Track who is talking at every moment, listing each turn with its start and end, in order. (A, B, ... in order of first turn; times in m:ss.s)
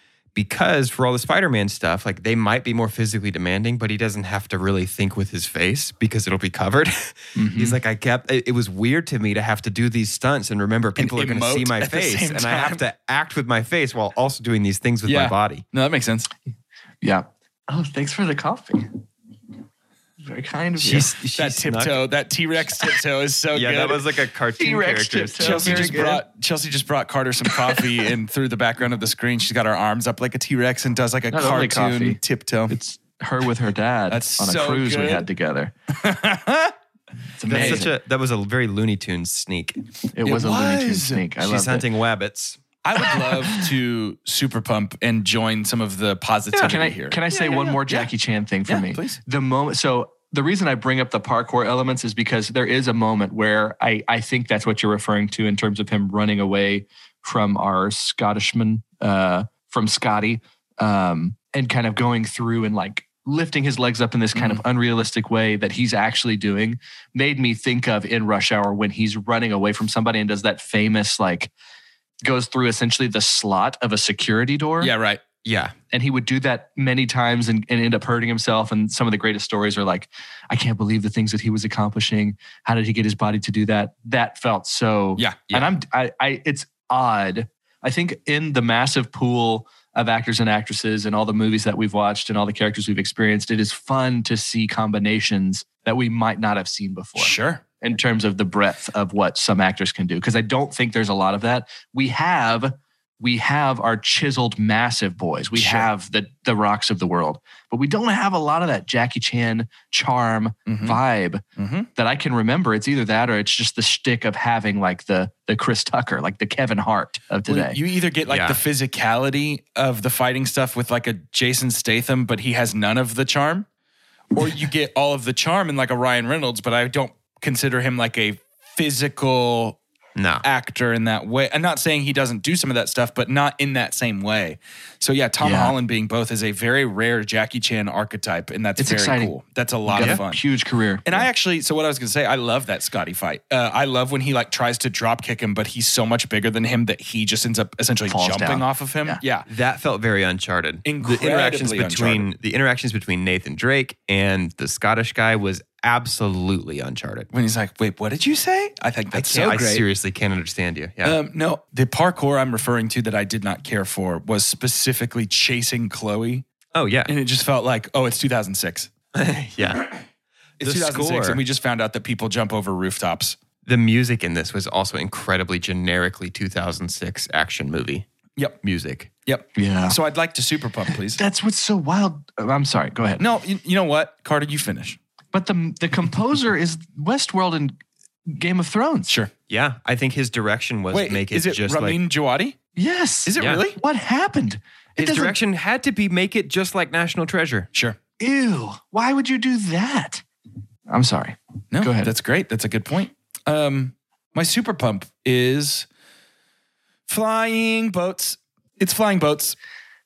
0:00.4-0:15.6 A
0:07.4-0:07.8 B
0:11.0-0:12.8 C
0:15.1-0:16.3 C
0:17.0-0:19.0 B
0:20.2-0:21.1 B
0:20.8-0:22.0 A
0:21.4-0:24.0 C
0:23.5-0:26.1 A
0:24.6-0:26.2 B
0:25.4-0:32.8 C
0:31.3-0:35.7 B
0:34.1-0:35.3 C
0:36.0-0:36.7 C
0:37.4-0:37.9 B
0:37.5-0:37.9 C
0:37.5-0:39.8 A
0:40.1-0:41.9 B
0:40.2-0:41.3 C
0:41.4-0:42.6 A
0:42.8-0:48.1 C
0:46.5-1:11.5 B
0:48.7-0:49.2 C
1:04.4-1:04.6 C
1:12.2-1:14.9 B
1:14.8-1:15.2 C
1:15.4-1:15.7 A
1:15.9-1:51.4 B
1:25.2-1:25.5 C
1:37.2-1:37.6 C
1:45.6-1:45.9 C
1:50.7-1:51.0 C
1:51.6-1:51.9 C
1:52.0-1:57.8 B
1:57.5-2:03.7 C
1:58.3-1:58.6 A
2:04.4-2:09.8 C
2:10.2-2:10.4 A
2:10.4-2:20.4 C
2:15.4-2:15.8 B
2:18.8-2:19.3 B
2:19.9-2:21.3 B
2:21.1-2:29.5 C
2:28.1-2:29.2 B
2:29.5-2:37.3 A
2:30.8-2:32.3 C
2:37.3-2:39.8 C
2:39.1-2:41.2 A
2:41.0-2:46.5 C
2:46.7-2:47.1 A
2:47.1-2:48.9 C
2:49.1-2:49.9 A
2:50.6-2:53.4 C
2:50.6-2:51.4 A
2:53.7-2:58.1 A
2:58.6-2:59.1 A
2:59.3-3:01.2 C
2:59.6-3:00.0 B
3:01.1-3:03.2 B
3:03.2-3:05.0 C
3:05.3-3:09.1 B
3:09.5-3:12.0 A
3:10.9-3:12.6 C
3:12.8-3:15.4 B
3:13.3-3:13.8 C
3:15.0-3:17.7 A
3:18.2-3:20.2 B
3:20.9-3:22.1 B
3:21.7-3:25.9 C
3:27.1-3:29.6 C